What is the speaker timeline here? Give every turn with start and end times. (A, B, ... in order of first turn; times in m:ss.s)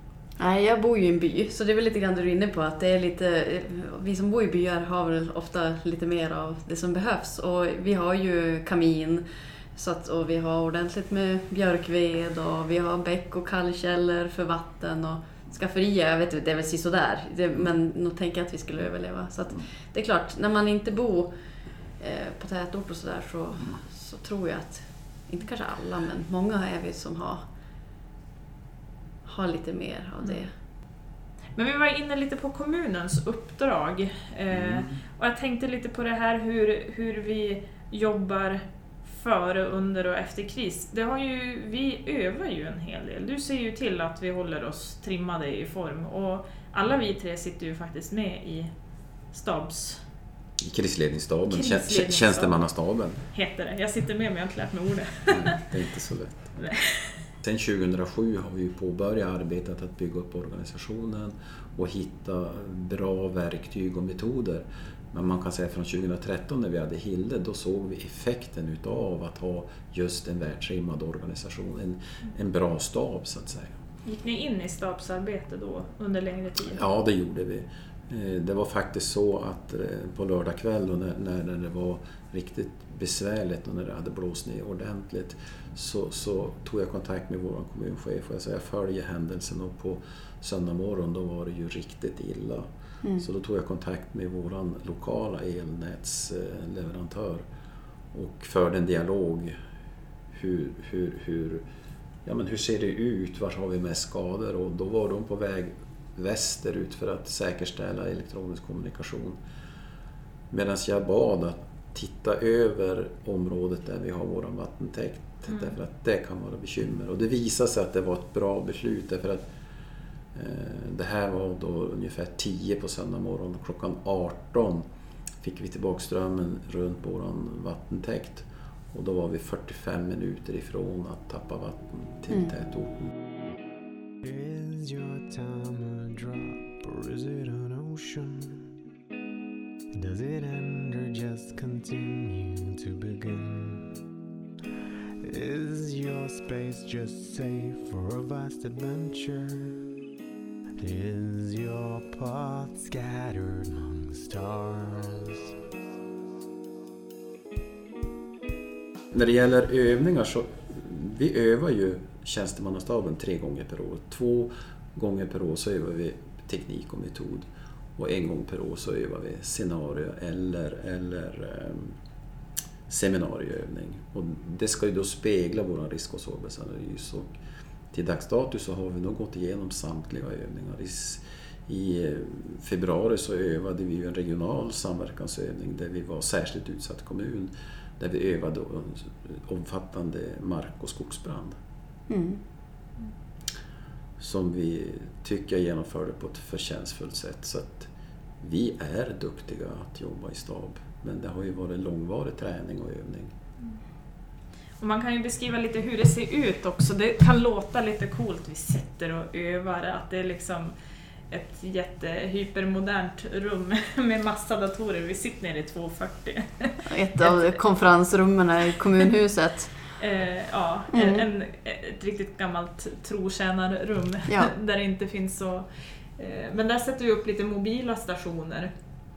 0:00.4-0:21.3 A
0:22.0-0:27.4 A
0:29.2-0:30.5 A
0:31.5-0:48.7 B
0:34.5-0:35.0 C
0:49.3-0:50.0 B
0:50.6-0:53.2 C
0:51.5-0:52.7 B
0:53.3-0:55.6 B
0:55.3-0:56.6 C
0:56.6-0:57.3 B
0:57.4-1:13.8 C
1:14.0-1:16.8 B
1:16.7-1:32.7 C
1:33.2-1:37.4 C
1:38.1-1:39.5 C
1:40.3-1:41.6 C
1:42.2-1:49.4 C
1:50.5-1:59.5 C
2:00.3-2:04.8 C
2:05.4-2:13.1 C
2:14.2-2:18.7 D
2:19.9-2:23.9 D
2:25.2-2:29.9 D
2:30.8-2:35.5 D
2:39.1-2:51.9 C
2:52.9-2:57.3 C
2:57.9-3:11.6 C
3:12.1-3:12.4 A
3:14.2-3:17.9 C
3:18.4-3:23.3 C
3:24.8-3:30.7 B
3:31.3-3:37.6 B
3:36.8-3:39.7 A
3:40.0-3:48.7 B
3:40.9-3:41.2 A